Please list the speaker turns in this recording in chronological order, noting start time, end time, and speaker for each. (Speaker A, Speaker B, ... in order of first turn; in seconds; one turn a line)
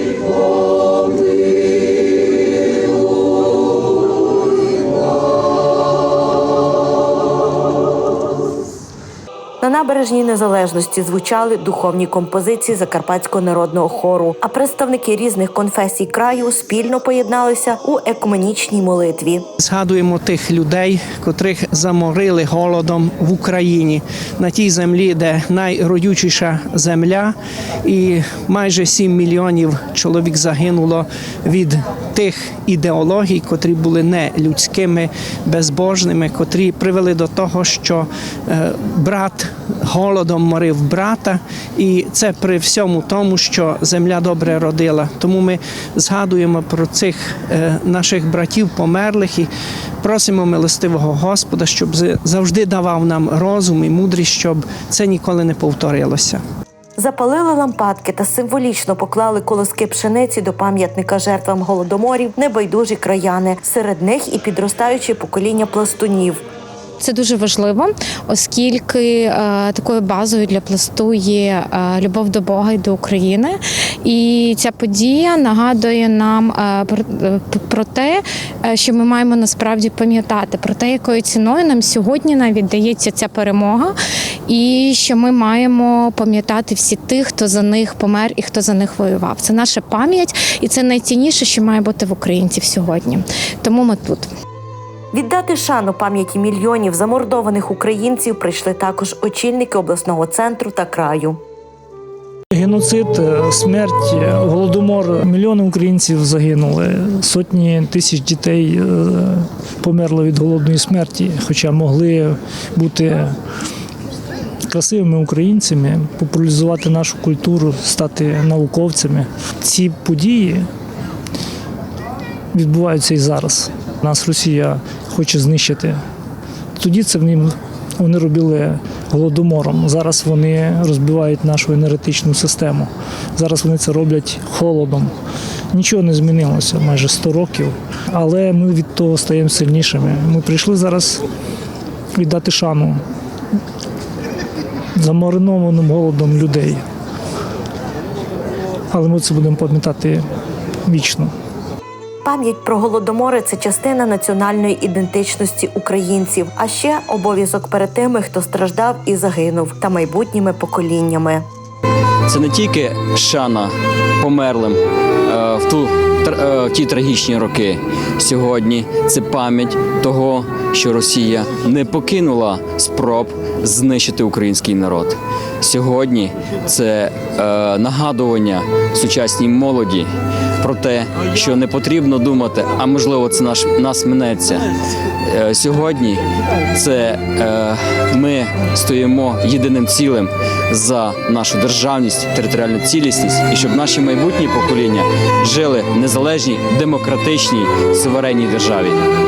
Speaker A: 9.6-19.4
Speaker B: 19.6-49.5
Speaker B: 50.0-56.4
Speaker A: 57.0-66.4
Speaker C: 67.0-83.9
Speaker C: 84.5-94.3
Speaker A: 95.1-101.4
Speaker D: 102.5-113.4
Speaker D: 114.7-120.7
Speaker D: 122.5-126.0
Speaker D: 126.8-135.1
Speaker D: 135.7-141.2
Speaker D: 142.2-143.0
Speaker D: 145.0-146.8
Speaker D: 148.9-150.2
Speaker D: 150.8-151.3
Speaker A: 152.2-161.4
Speaker E: 162.3-180.1
Speaker E: 180.6-184.7
Speaker E: 185.2-199.0